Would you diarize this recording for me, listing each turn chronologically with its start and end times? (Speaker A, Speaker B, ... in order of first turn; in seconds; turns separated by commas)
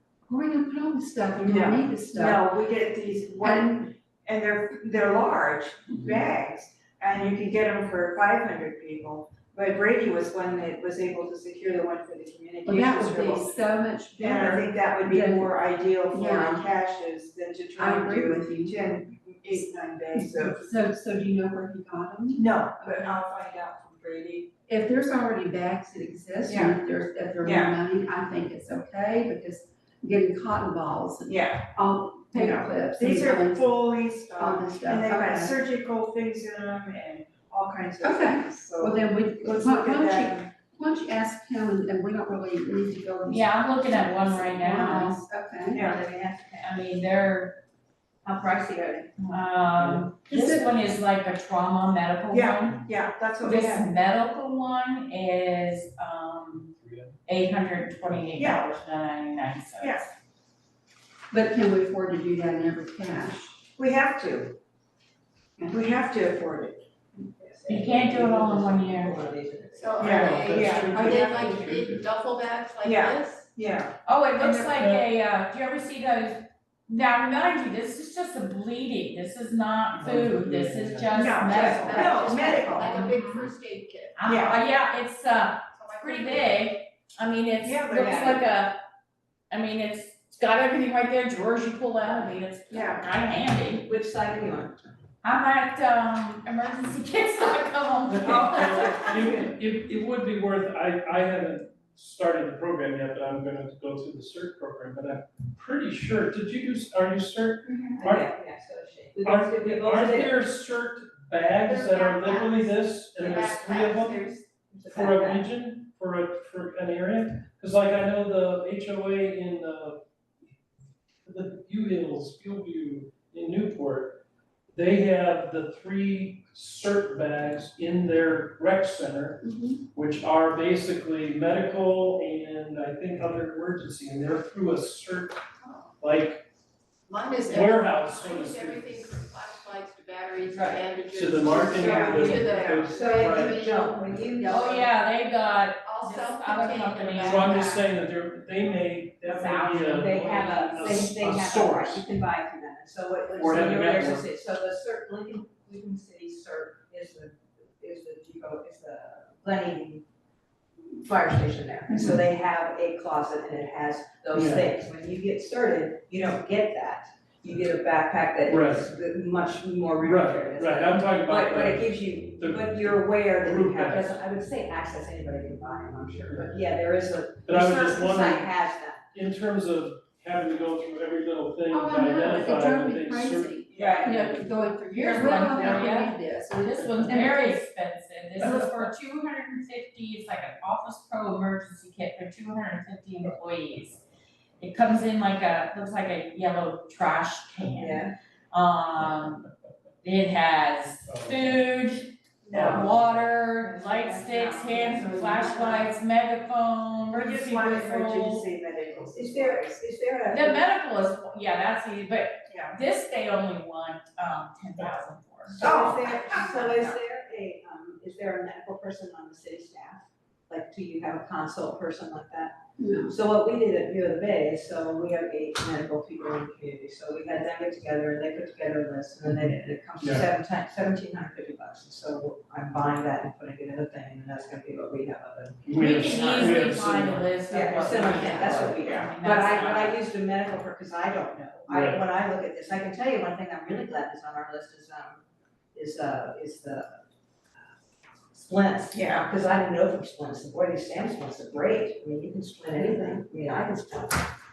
Speaker A: 0.2-2.4, Speaker B: 1.4-13.5, Speaker A: 3.4-3.9, Speaker A: 12.6-15.5, Speaker B: 14.2-20.6, Speaker A: 16.1-16.6, Speaker A: 17.8-18.8, Speaker A: 20.1-23.2, Speaker B: 22.4-24.5, Speaker A: 24.7-35.5, Speaker B: 26.5-26.8, Speaker B: 27.4-27.7, Speaker B: 31.2-31.7, Speaker B: 32.3-40.5, Speaker A: 38.0-45.8, Speaker C: 43.3-45.2, Speaker B: 45.7-46.0, Speaker D: 45.8-46.8, Speaker C: 46.6-47.6, Speaker D: 48.2-49.1, Speaker C: 49.2-52.7, Speaker E: 49.8-50.1, Speaker B: 52.3-53.8, Speaker C: 53.4-60.1, Speaker E: 56.8-57.1, Speaker B: 58.4-58.6, Speaker B: 59.8-60.0, Speaker A: 61.3-63.6, Speaker D: 63.8-64.5, Speaker B: 63.8-64.4, Speaker B: 65.6-66.8, Speaker D: 67.1-71.1, Speaker C: 67.7-69.2, Speaker F: 69.8-73.6, Speaker B: 70.0-71.0, Speaker E: 70.0-72.0, Speaker B: 72.8-74.7, Speaker C: 74.0-83.5, Speaker E: 74.7-75.0, Speaker E: 80.0-81.1, Speaker B: 81.1-83.0, Speaker D: 81.5-83.0, Speaker F: 81.6-84.2, Speaker C: 84.2-88.8, Speaker B: 84.2-84.6, Speaker F: 85.8-86.5, Speaker B: 87.6-88.4, Speaker D: 88.0-88.4, Speaker C: 89.5-93.9, Speaker B: 92.7-93.1, Speaker D: 93.8-94.8, Speaker C: 95.2-99.2, Speaker E: 98.1-108.3, Speaker D: 98.2-99.5, Speaker D: 107.7-110.3, Speaker E: 109.2-114.3, Speaker F: 111.7-114.4, Speaker D: 114.7-115.4, Speaker E: 114.9-120.0, Speaker E: 121.2-124.2, Speaker E: 124.7-135.5, Speaker A: 129.4-129.8, Speaker E: 136.0-136.4, Speaker F: 137.1-144.6, Speaker E: 137.4-139.2, Speaker D: 140.5-140.8, Speaker E: 141.1-143.6, Speaker D: 141.5-144.9, Speaker C: 144.4-147.7, Speaker F: 146.0-147.8, Speaker E: 147.2-152.0, Speaker C: 149.2-150.9, Speaker D: 149.8-160.0, Speaker E: 153.3-154.2, Speaker D: 161.0-179.0, Speaker E: 164.3-164.7, Speaker E: 168.5-169.0, Speaker E: 170.0-174.2, Speaker E: 177.4-178.5, Speaker E: 179.1-184.5, Speaker A: 181.7-187.6, Speaker B: 183.7-184.0, Speaker D: 183.8-184.2, Speaker C: 184.9-194.0, Speaker E: 188.4-188.7, Speaker C: 194.6-199.5, Speaker D: 197.7-198.1, Speaker C: 200.0-208.4, Speaker E: 201.1-201.6, Speaker B: 202.5-202.8, Speaker E: 202.5-203.1, Speaker D: 202.5-202.9, Speaker D: 203.7-205.8, Speaker B: 204.4-205.3, Speaker B: 207.1-210.4, Speaker D: 209.1-209.8, Speaker C: 210.3-215.6, Speaker B: 212.5-212.7, Speaker B: 215.6-217.0, Speaker D: 215.6-236.7, Speaker A: 222.8-223.2, Speaker E: 230.0-230.2, Speaker E: 235.7-237.3, Speaker C: 235.7-240.0, Speaker D: 237.5-245.2, Speaker F: 238.1-238.5, Speaker B: 238.7-239.2, Speaker E: 241.7-242.0, Speaker D: 245.7-247.0, Speaker D: 248.3-254.3, Speaker B: 248.9-249.3, Speaker A: 252.8-253.2